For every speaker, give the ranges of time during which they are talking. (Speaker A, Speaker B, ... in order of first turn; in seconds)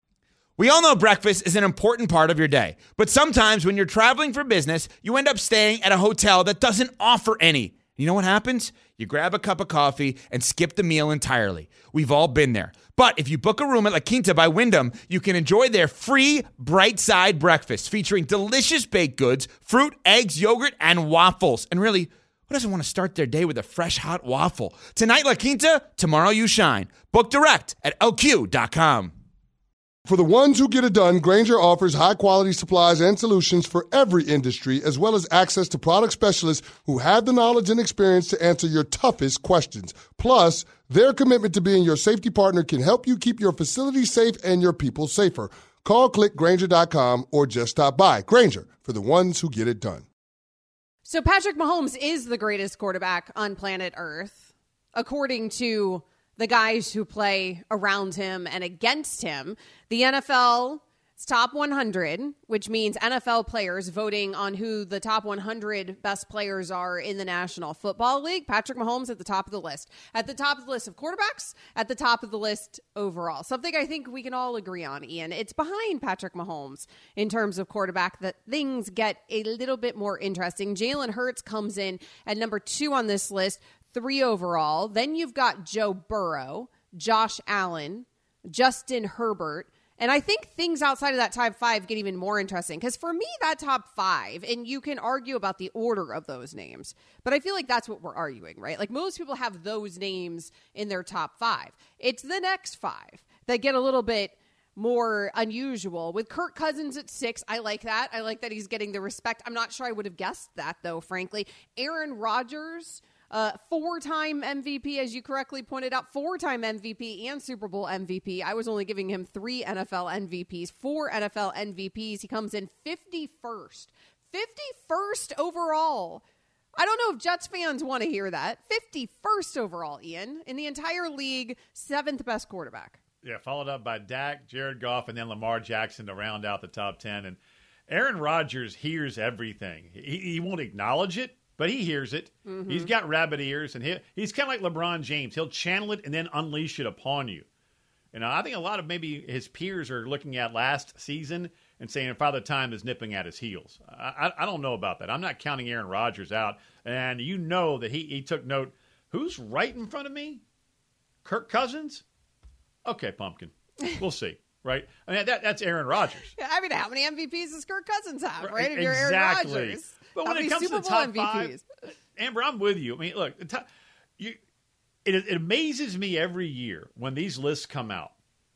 Speaker A: 0.6-29.1
Speaker B: 30.1-50.0
Speaker C: 51.1-126.2, 126.8-133.0, 142.5-142.9, 166.4-171.7
Speaker D: 133.2-137.4, 137.9-147.5, 148.1-160.4, 161.2-162.0, 162.9-166.3, 168.4-171.6, 172.2-173.7, 175.1-178.1